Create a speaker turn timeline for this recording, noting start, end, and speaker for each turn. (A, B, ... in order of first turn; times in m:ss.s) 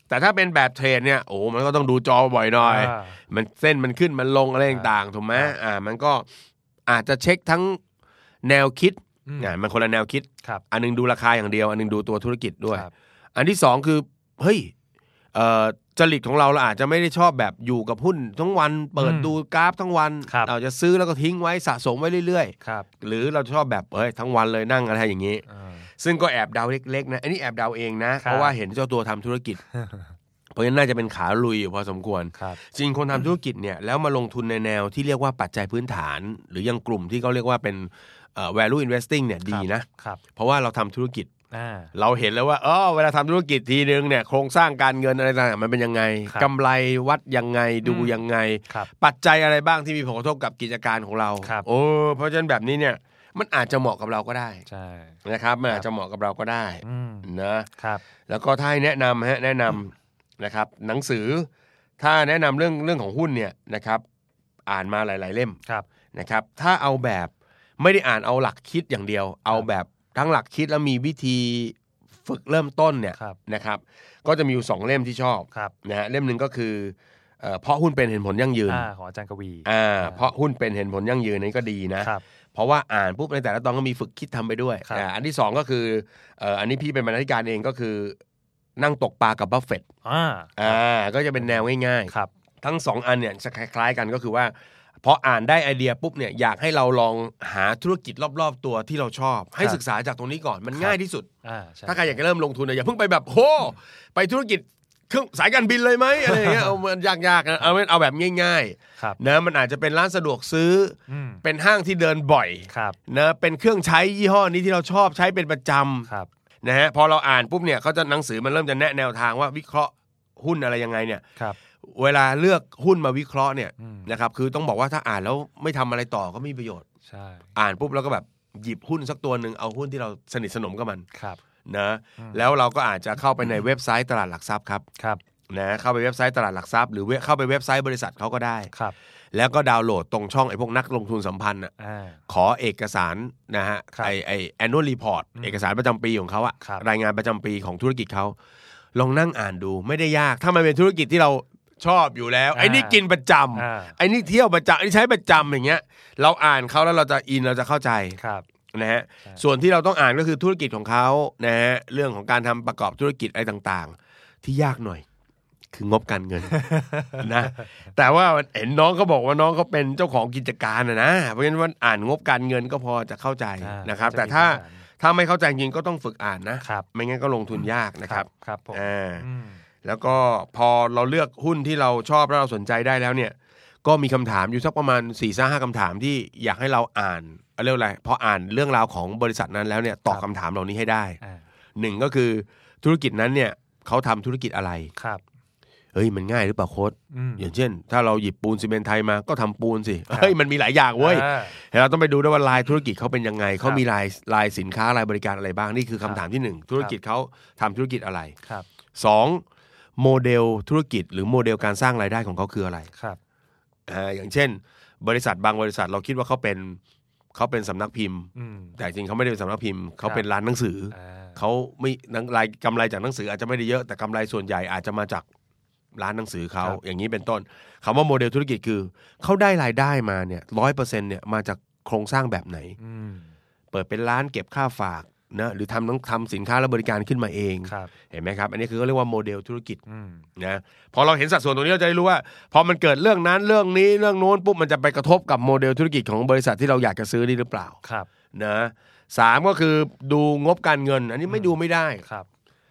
0:00.1-0:06.3 A
0:02.6-0:03.2 B
0:04.7-0:05.6 B
0:06.9-0:07.8 A
0:08.4-0:14.7 A
0:09.3-0:09.6 B
0:15.3-0:25.4 A
0:19.0-0:19.3 B
0:20.3-0:20.5 B
0:22.6-0:22.9 B
0:25.5-0:25.9 B
0:26.0-0:29.6 A
0:28.2-0:28.6 B
0:29.8-0:30.0 B
0:30.6-0:41.3 A
0:39.5-0:40.2 B
0:41.5-0:41.9 B
0:41.9-0:54.6 A
0:47.8-0:48.2 B
0:51.4-0:51.7 B
0:54.7-0:55.2 B
0:55.2-0:57.7 A
0:56.8-0:58.0 B
0:58.3-1:01.5 A
1:02.0-1:04.0 A
1:04.7-1:05.6 A
1:06.1-1:18.9 A
1:18.7-1:20.3 B
1:19.6-1:28.2 A
1:28.8-1:29.8 A
1:30.0-1:30.8 B
1:30.6-1:41.3 A
1:31.4-1:32.3 B
1:40.7-1:42.2 B
1:41.9-1:56.1 A
1:46.3-1:46.7 B
1:51.1-1:51.4 B
1:52.7-1:53.0 B
1:56.6-2:01.2 A
2:01.8-2:06.8 A
2:03.8-2:04.1 B
2:07.0-2:07.5 B
2:07.6-2:11.1 A
2:11.1-2:11.4 B
2:11.7-2:14.8 A
2:12.2-2:12.5 B
2:15.5-2:18.7 A
2:19.3-2:21.7 A
2:21.8-2:22.2 B
2:22.3-2:28.4 A
2:25.4-2:25.6 B
2:29.0-2:38.2 A
2:32.5-2:33.0 B
2:33.6-2:34.0 B
2:38.2-2:38.5 B
2:38.7-2:45.0 A
2:45.7-2:59.3 A
2:46.6-2:47.2 B
2:53.6-2:54.8 B
2:58.0-2:59.6 B
2:59.8-3:11.2 A
3:11.8-3:14.9 A
3:15.0-3:15.2 B
3:15.9-3:28.4 A
3:17.1-3:17.5 B
3:21.0-3:21.6 B
3:29.0-3:29.4 A
3:30.0-3:32.9 A
3:32.9-3:33.2 B
3:33.9-3:36.8 A
3:37.3-3:45.3 A
3:38.4-3:38.8 B
3:40.9-3:41.4 B
3:46.0-3:52.8 A
3:52.8-3:53.3 B
3:53.7-3:59.8 A
3:57.7-3:57.9 B
3:59.9-4:00.2 B
4:00.4-4:07.8 A
4:07.8-4:08.1 B
4:08.3-4:12.0 A
4:11.3-4:12.3 B